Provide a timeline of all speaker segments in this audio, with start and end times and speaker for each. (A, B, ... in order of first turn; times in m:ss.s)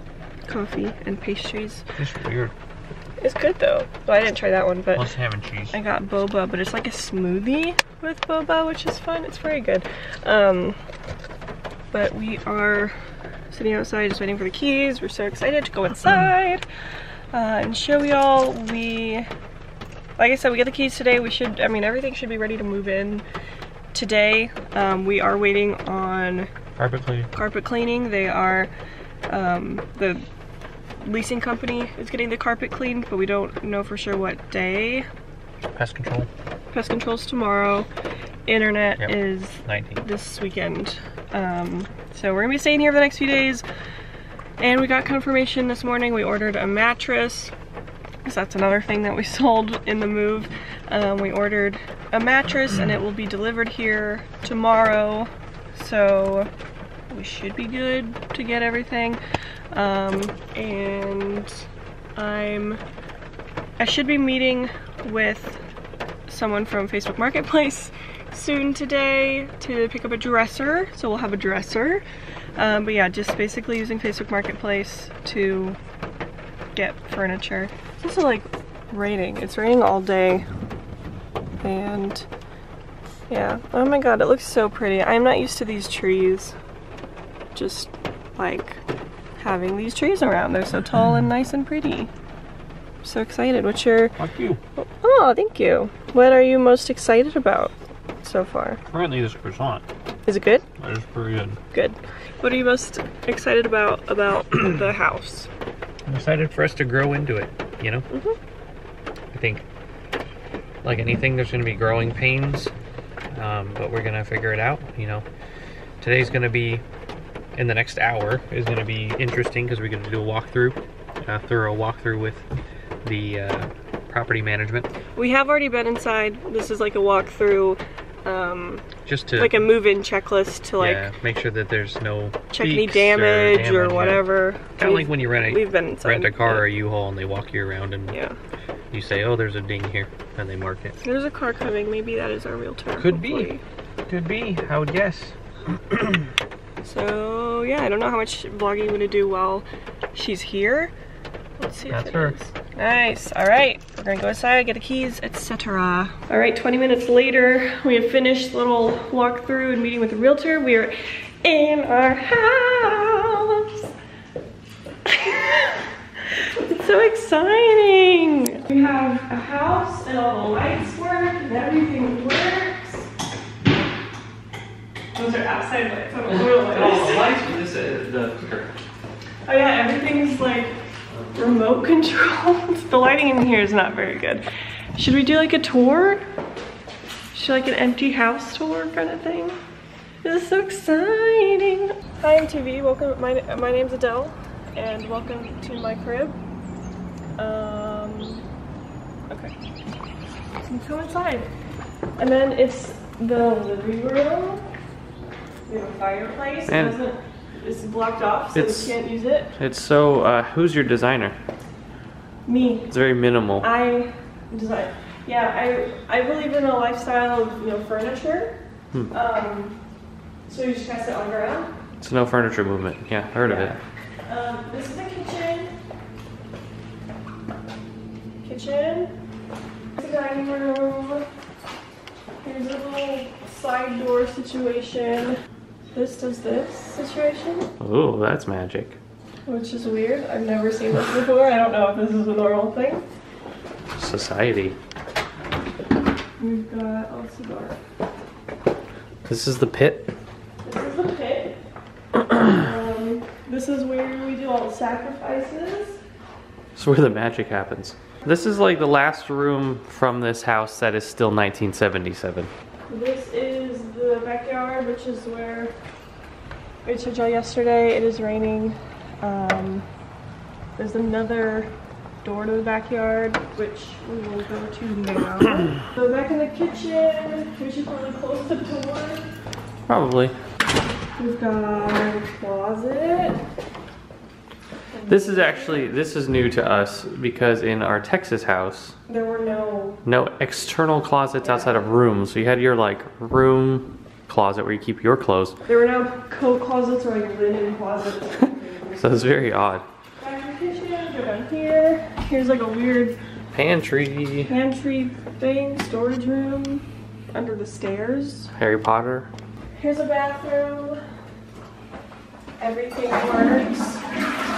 0:00.5-0:01.9 A
0:02.0-0:02.5 B
0:03.2-0:05.1 A
0:05.0-0:05.8 B
0:05.7-0:10.8 A
0:11.9-0:13.0 A
0:13.5-0:16.6 A
0:17.3-0:19.3 A
0:20.2-0:23.2 A
0:23.9-0:26.5 A
0:26.8-0:27.3 B
0:27.3-0:28.7 A
0:29.3-0:30.3 A
0:31.0-0:35.1 A
0:35.7-0:36.3 B
0:36.7-0:37.9 A
0:38.5-0:43.6 A
0:39.0-0:40.0 B
0:44.6-0:47.5 A
0:48.2-0:56.5 A
0:57.1-0:59.2 A
0:59.7-1:01.6 A
1:02.2-1:02.8 A
1:03.8-1:05.6 A
1:06.3-1:12.0 A
1:12.6-1:15.8 A
1:16.8-1:20.5 A
1:21.6-1:22.3 A
1:23.3-1:26.6 A
1:27.6-1:28.8 A
1:29.4-1:32.1 A
1:33.0-1:34.2 A
1:34.2-1:34.6 B
1:34.8-1:38.8 A
1:38.9-1:39.8 B
1:40.3-1:40.6 A
1:40.8-1:41.6 B
1:41.7-1:45.5 A
1:46.1-1:48.1 B
1:49.3-1:49.6 B
1:50.8-1:52.7 B
1:53.3-1:55.2 B
1:56.0-1:56.8 B
1:57.6-2:02.5 B
2:03.0-2:04.9 B
2:05.2-2:11.1 A
2:09.0-2:09.6 B
2:10.8-2:14.3 B
2:12.5-2:16.7 A
2:14.8-2:18.2 B
2:18.1-2:18.4 A
2:18.9-2:21.0 B
2:21.0-2:23.6 A
2:23.0-2:23.5 B
2:24.1-2:26.3 B
2:26.8-2:30.9 A
2:31.6-2:43.9 A
2:31.9-2:32.4 B
2:45.1-2:53.1 A
2:55.2-2:57.3 A
2:56.3-2:58.8 B
2:59.5-3:00.8 A
3:01.4-3:06.3 A
3:07.3-3:09.6 A
3:10.2-3:16.4 A
3:17.4-3:18.4 A
3:19.3-3:19.5 A
3:20.6-3:21.5 A
3:22.2-3:24.7 A
3:25.7-3:29.6 A
3:26.7-3:27.0 B
3:28.5-3:29.0 B
3:29.6-3:31.4 B
3:32.5-3:32.9 A
3:32.9-3:33.7 B
3:33.6-3:38.6 A
3:39.1-3:39.8 A
3:40.5-3:41.7 A
3:42.0-3:43.8 B
3:43.5-3:43.7 A
3:44.3-3:45.7 A
3:48.4-3:49.1 A
3:50.0-3:51.3 A
3:52.4-3:55.4 A
3:55.9-3:57.7 A
3:57.8-3:59.0 B
3:59.5-4:03.0 A
4:04.0-4:04.8 B
4:06.4-4:07.8 A
4:09.2-4:10.1 B
4:10.6-4:11.6 A
4:12.3-4:16.0 A
4:16.8-4:22.5 B
4:22.9-4:25.7 A
4:26.8-4:29.9 A
4:30.8-4:31.7 A
4:32.2-4:39.2 A
4:39.9-4:40.4 B
4:41.2-4:43.4 A
4:44.9-4:45.9 A
4:45.1-4:49.0 B
4:49.1-4:50.0 A
4:50.0-4:55.6 B
4:51.4-4:51.9 A
4:55.7-4:59.3 A
4:59.0-4:59.8 B
5:00.2-5:03.2 A
5:03.5-5:04.5 B
5:04.5-5:08.5 A
5:08.6-5:09.3 B
5:09.8-5:11.0 A
5:12.6-5:14.2 A